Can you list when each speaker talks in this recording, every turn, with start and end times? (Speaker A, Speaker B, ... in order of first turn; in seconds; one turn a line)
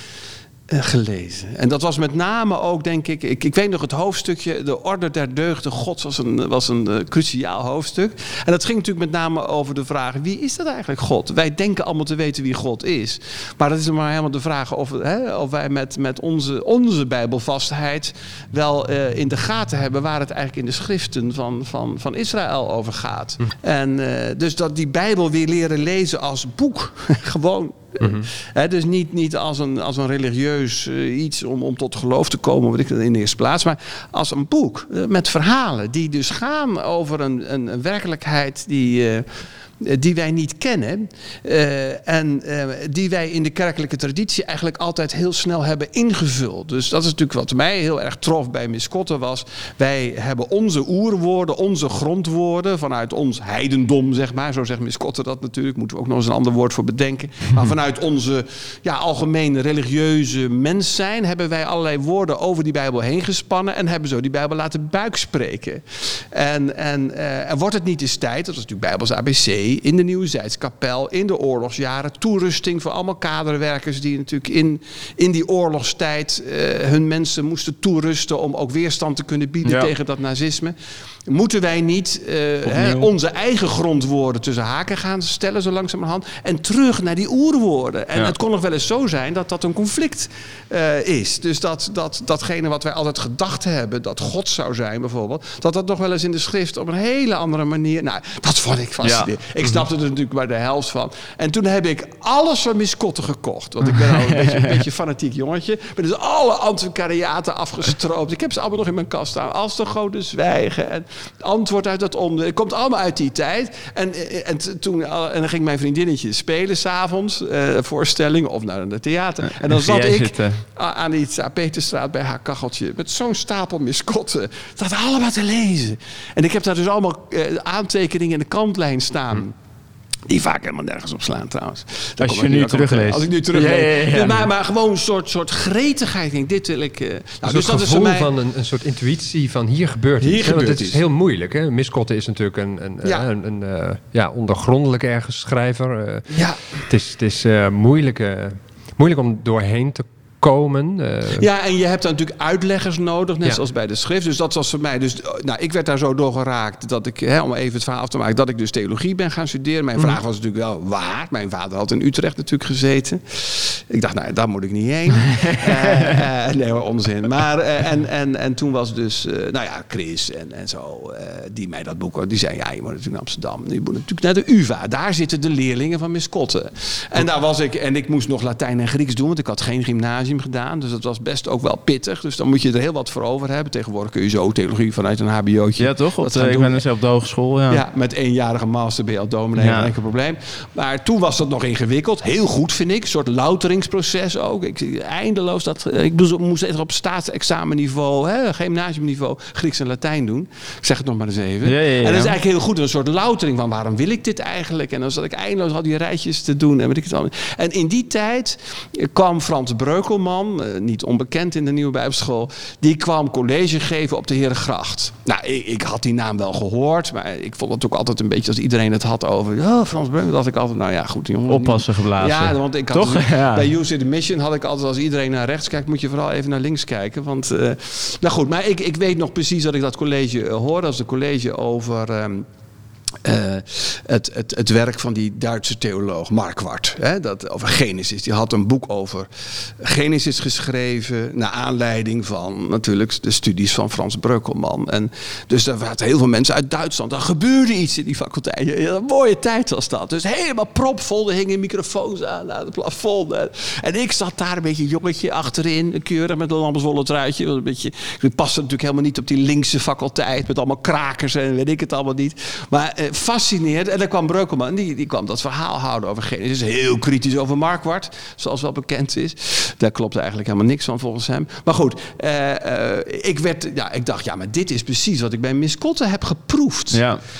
Speaker A: 0.7-39.3
Speaker A: 39.8-80.7
Speaker B: 79.6-79.9
Speaker A: 81.3-129.5
Speaker B: 82.7-83.1
Speaker B: 99.0-99.3
Speaker B: 103.8-104.8
Speaker B: 119.7-120.6
Speaker A: 130.3-138.3
Speaker B: 132.2-134.5
Speaker C: 137.4-151.4
Speaker A: 140.2-141.0
Speaker A: 146.3-146.8
Speaker A: 151.3-186.8
Speaker B: 165.2-166.2
Speaker B: 185.8-187.8
Speaker A: 187.7-232.5
Speaker B: 189.6-189.9
Speaker B: 201.6-202.3
Speaker B: 221.5-223.7
Speaker A: 233.2-277.0
Speaker B: 276.9-277.2